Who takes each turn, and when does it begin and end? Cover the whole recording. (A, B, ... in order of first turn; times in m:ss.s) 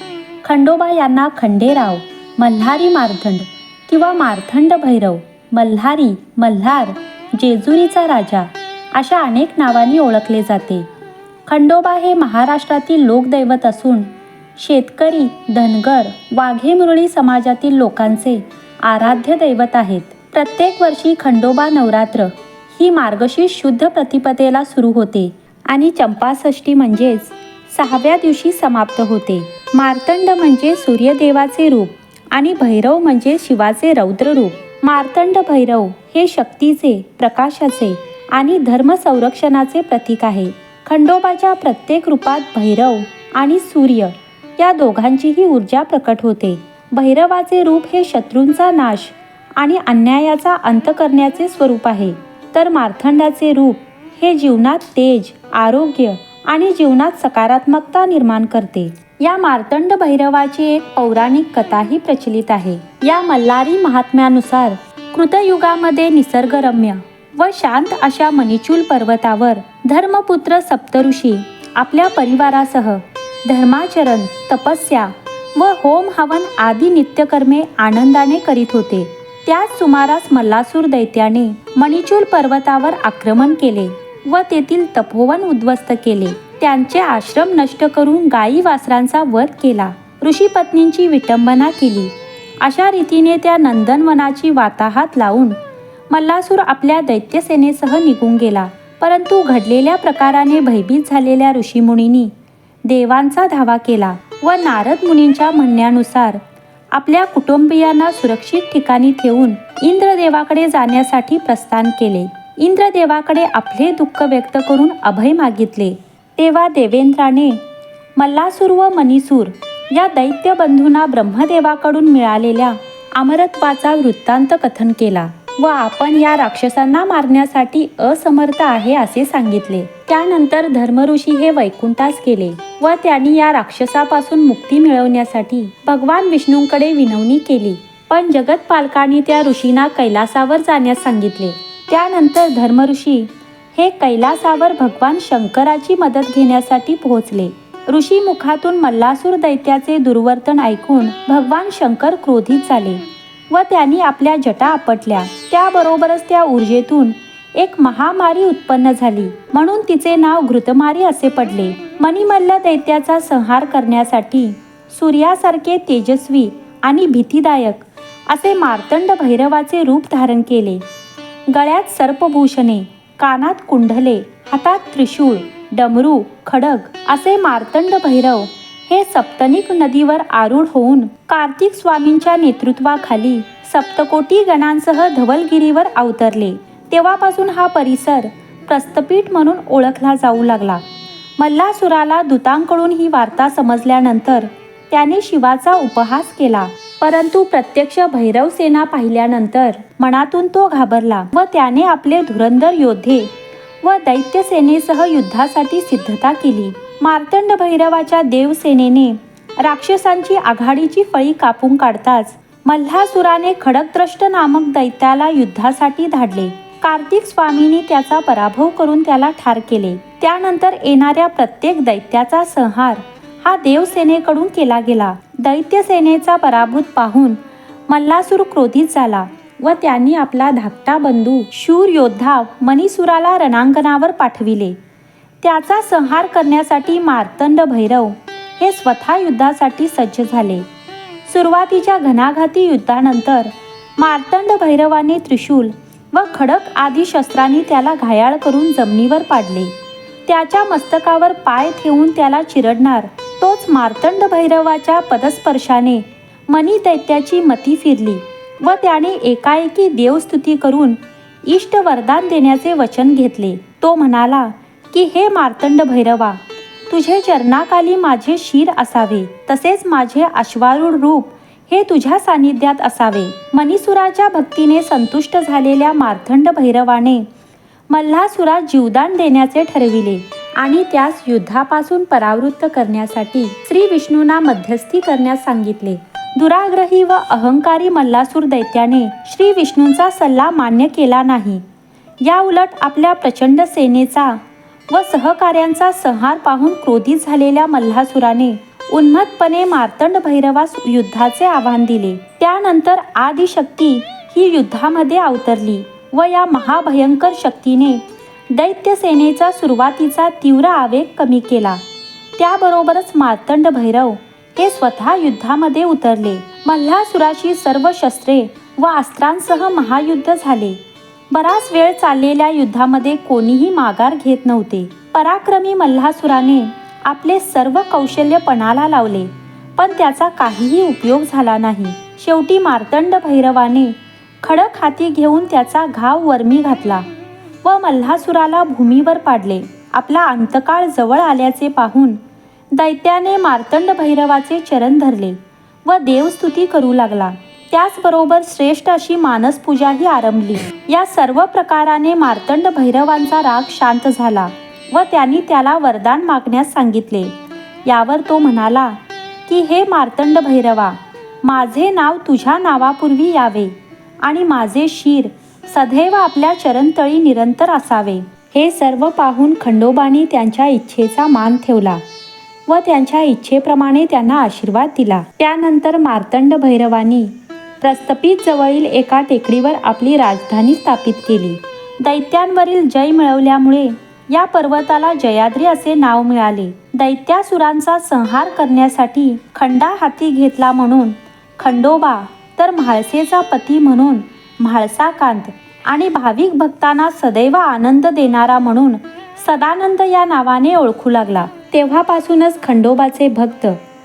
0:00.4-0:10.9 A
0:11.5-1:35.6 A
1:36.1-1:42.3 A
1:42.8-1:46.4 A
1:46.9-1:57.6 A
1:58.2-2:50.8 A
2:51.5-3:10.8 A
3:11.4-3:23.3 A
3:23.8-3:54.8 A
3:55.4-4:00.6 A
4:01.3-4:09.7 A
4:10.3-4:37.2 A
4:37.9-4:51.6 A
4:52.2-4:54.4 A
4:54.9-5:11.8 A
5:12.4-5:20.8 A
5:21.3-5:37.0 A
5:37.6-5:42.2 A
5:42.7-5:57.3 A
5:57.8-5:59.0 A
5:59.5-6:12.0 A
6:12.7-6:43.8 A